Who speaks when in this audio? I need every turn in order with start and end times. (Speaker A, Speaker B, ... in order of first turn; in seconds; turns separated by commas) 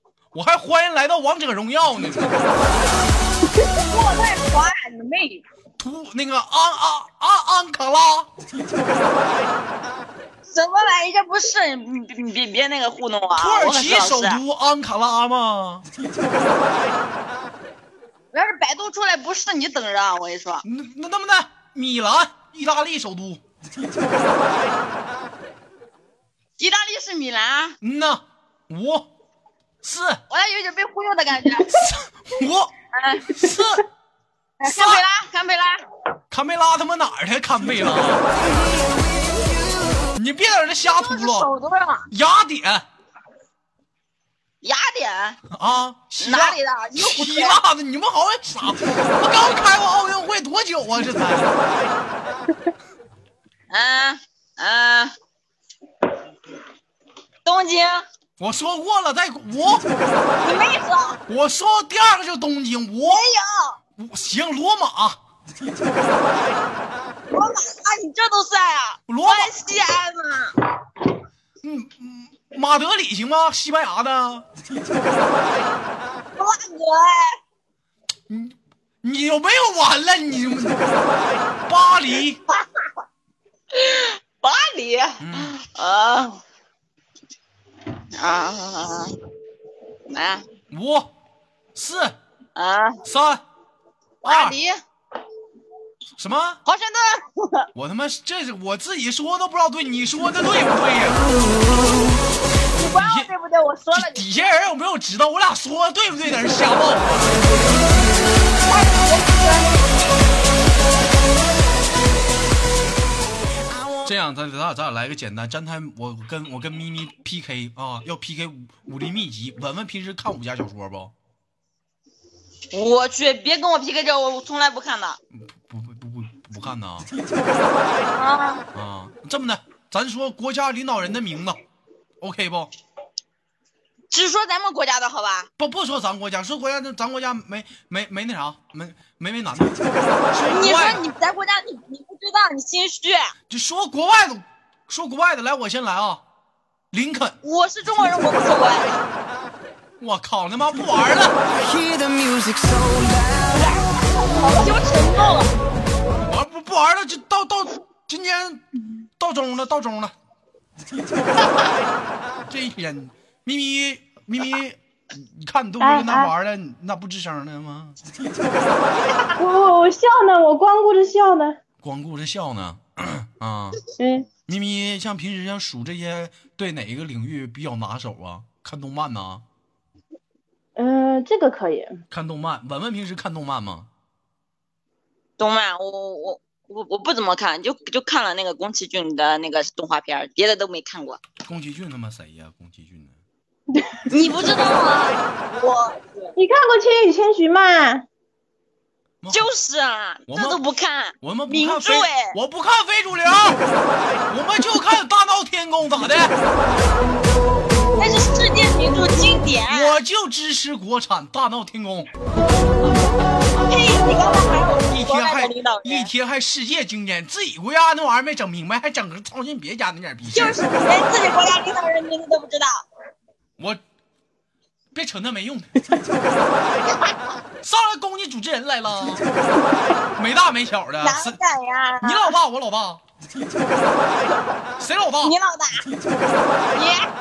Speaker A: 0.3-2.5, Speaker B: 3.8-5.4, Speaker A: 5.8-8.3, Speaker B: 10.5-14.4, Speaker A: 13.3-15.8, Speaker B: 18.3-20.6, Speaker A: 20.6-23.4, Speaker B: 26.6-27.8, Speaker A: 27.8-29.1, Speaker A: 29.8-30.2, Speaker B: 30.3-31.8, Speaker A: 31.6-32.7, Speaker B: 32.9-33.3, Speaker A: 33.3-33.8, Speaker B: 34.6-35.8, Speaker A: 34.6-35.0, Speaker A: 36.3-38.2, Speaker C: 38.3-40.2, Speaker A: 40.1-41.5, Speaker B: 40.9-42.1, Speaker A: 42.1-42.9, Speaker B: 44.6-45.4, Speaker A: 45.5-51.5, Speaker B: 46.2-47.6, Speaker B: 53.7-55.1, Speaker B: 57.4-58.0, Speaker A: 58.4-59.9, Speaker B: 60.4-61.2, Speaker A: 61.3-63.3, Speaker B: 63.0-63.8, Speaker A: 64.0-65.2, Speaker B: 67.3-70.5, Speaker A: 69.1-69.5, Speaker A: 71.6-74.5, Speaker B: 76.4-77.4, Speaker A: 78.3-80.8, Speaker A: 81.7-82.4, Speaker B: 83.7-86.4, Speaker A: 85.2-85.5, Speaker B: 88.2-89.1, Speaker B: 90.1-90.4, Speaker A: 90.7-91.1, Speaker A: 91.7-92.2, Speaker B: 92.5-93.0, Speaker A: 93.0-93.4, Speaker B: 94.2-94.8, Speaker A: 94.2-94.5, Speaker A: 96.2-96.6, Speaker B: 96.7-97.7, Speaker A: 97.7-101.3, Speaker B: 102.8-104.5, Speaker A: 102.9-103.3, Speaker A: 103.9-107.5, Speaker B: 108.6-109.8, Speaker C: 113.7-114.1, Speaker A: 114.0-121.1, Speaker B: 122.7-125.2, Speaker A: 125.3-127.1, Speaker B: 128.2-128.6, Speaker A: 128.7-131.6, Speaker A: 132.2-132.7, Speaker B: 134.1-135.5, Speaker A: 135.6-139.8, Speaker A: 140.3-141.0, Speaker B: 140.5-143.3, Speaker A: 143.5-146.2, Speaker A: 146.9-147.4, Speaker B: 147.4-149.0, Speaker A: 150.0-151.3, Speaker C: 151.5-153.7, Speaker B: 153.5-155.5, Speaker A: 156.2-158.7, Speaker A: 159.2-160.1, Speaker A: 162.4-168.0, Speaker D: 165.8-166.3, Speaker D: 169.4-171.6, Speaker A: 171.8-173.8, Speaker D: 174.0-174.3, Speaker A: 174.4-179.4, Speaker D: 180.8-182.0, Speaker A: 182.1-183.9, Speaker B: 185.4-191.2, Speaker A: 191.4-193.2, Speaker D: 193.7-194.0, Speaker B: 194.1-196.3, Speaker D: 196.3-198.1, Speaker B: 199.3-202.3, Speaker A: 200.3-200.6, Speaker A: 201.2-203.6, Speaker A: 204.3-206.3, Speaker B: 207.9-210.0, Speaker A: 209.7-212.1, Speaker B: 213.6-216.1, Speaker A: 214.9-220.6, Speaker B: 220.3-222.8, Speaker A: 224.9-225.8, Speaker B: 226.9-227.1, Speaker A: 227.6-229.2, Speaker A: 230.1-231.4, Speaker B: 231.0-232.3, Speaker A: 232.0-233.0, Speaker A: 234.8-235.3, Speaker B: 235.2-235.8, Speaker B: 236.7-237.0